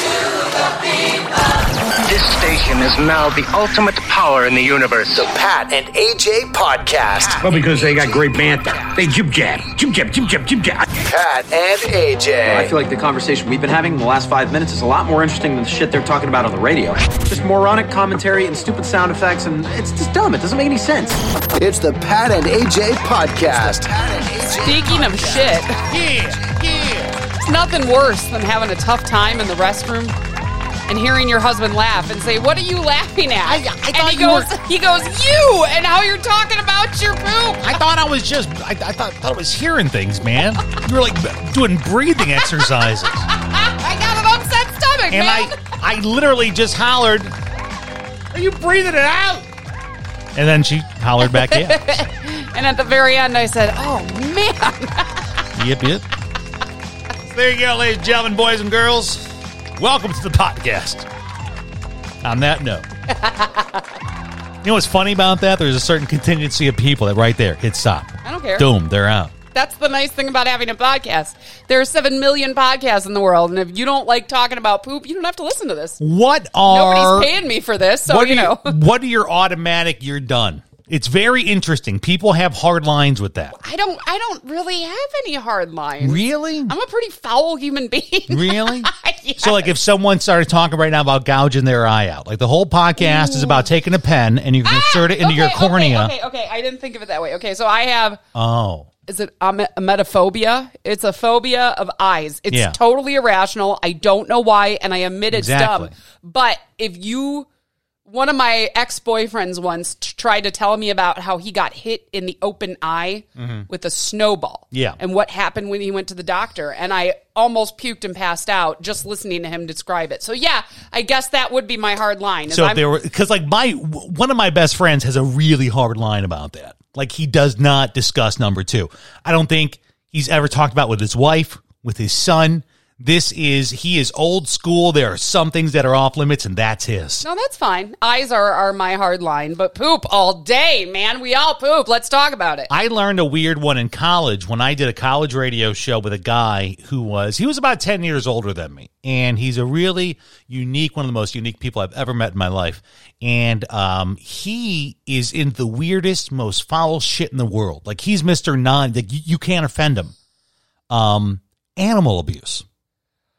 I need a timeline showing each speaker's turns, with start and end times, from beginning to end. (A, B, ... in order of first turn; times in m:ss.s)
0:02.0-0:05.2 A
0:05.1-0:09.0 B
0:07.3-0:10.9 C
0:11.0-0:12.7 B
0:12.5-0:21.2 D
0:21.6-0:25.6 B
0:24.6-0:25.7 E
0:25.9-0:27.1 F
0:27.4-0:30.2 E
0:30.9-0:37.8 E
0:33.4-0:34.5 F
0:37.6-0:43.3 F
0:43.4-0:45.6 E
0:45.1-0:47.4 F
0:48.3-0:49.5 F
0:50.4-0:52.0 F
0:51.2-0:55.3 E
0:55.6-0:56.1 F
0:57.3-1:01.1 F
1:02.2-1:02.9 F
1:03.1-1:03.8 E
1:04.6-1:09.3 F
1:08.2-1:08.7 E
1:09.5-1:16.0 E
1:16.0-1:17.4 F
1:16.7-1:18.7 E
1:18.1-1:23.6 F
1:23.6-1:29.7 E
1:26.0-1:26.7 F
1:28.3-1:36.1 F
1:33.0-1:33.6 E
1:34.6-1:38.2 E
1:38.3-1:38.9 F
1:39.1-1:47.5 E
1:42.5-1:42.8 F
1:45.3-1:45.9 F
1:48.1-2:02.8 E
1:53.4-1:53.7 F
1:54.7-1:55.0 F
2:02.5-2:17.2 F
2:17.2-2:22.7 E
2:22.7-2:40.1 F
2:40.9-2:42.6 F